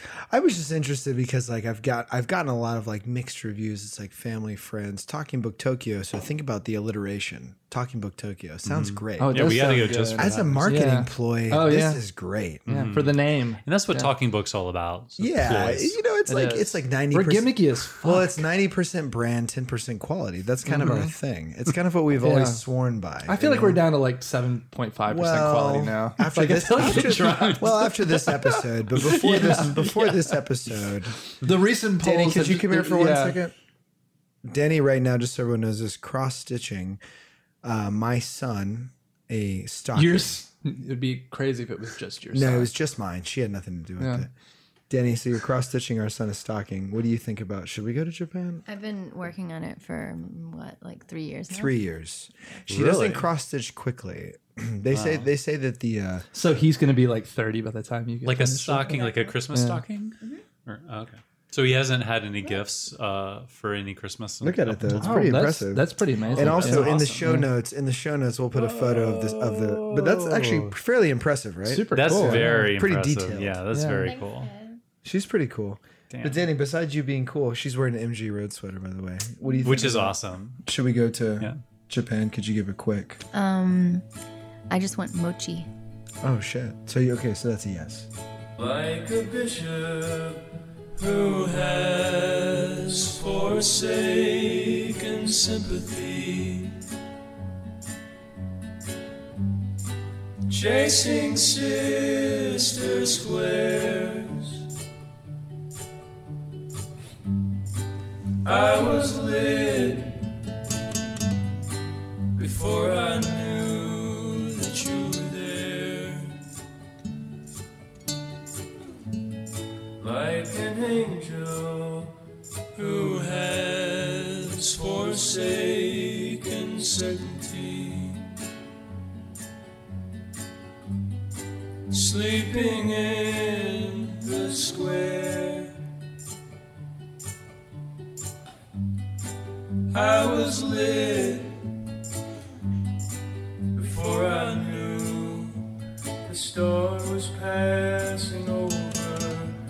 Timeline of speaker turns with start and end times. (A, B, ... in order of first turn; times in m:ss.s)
0:00.1-0:12.8 A
0:08.6-0:10.7 B
0:09.2-0:12.0 C
0:12.7-0:14.1 C
0:12.7-0:16.0 B
0:15.2-0:23.8 A
0:16.3-0:18.3 C
0:20.7-0:21.1 C
0:22.2-0:22.6 C
0:23.2-0:30.3 C
0:25.1-0:31.2 A
0:26.8-0:27.6 B
0:31.3-0:33.4 C
0:32.0-0:33.5 A
0:34.4-0:37.0 A
0:37.6-0:40.4 A
0:39.9-0:42.7 C
0:42.3-0:44.3 A
0:44.0-0:44.2 C
0:44.9-0:48.6 A
0:48.7-0:51.8 D
0:51.5-0:56.2 A
0:52.7-0:53.2 B
0:54.9-0:55.2 C
0:56.3-0:59.0 C
0:58.2-1:05.3 B
0:58.8-0:59.4 D
0:59.5-0:59.8 C
1:04.4-1:13.6 A
1:05.0-1:07.5 C
1:06.3-1:07.3 B
1:08.5-1:10.7 C
1:11.6-1:12.7 C
1:11.9-1:14.5 B
1:13.7-1:14.1 C
1:14.0-1:14.8 D
1:15.0-1:23.2 A
1:16.1-1:16.4 B
1:19.6-1:20.6 B
1:23.3-1:24.0 D
1:24.7-1:25.7 D
1:26.2-1:28.1 A
1:28.6-1:30.4 E
1:31.0-1:36.7 E
1:40.5-1:44.5 E
1:48.4-1:50.1 E
1:52.4-1:56.3 E
2:00.0-2:02.1 E
2:02.8-2:08.2 E
2:11.9-2:15.7 E
2:19.9-2:21.5 E
2:23.8-2:25.6 E
2:26.3-2:29.5 E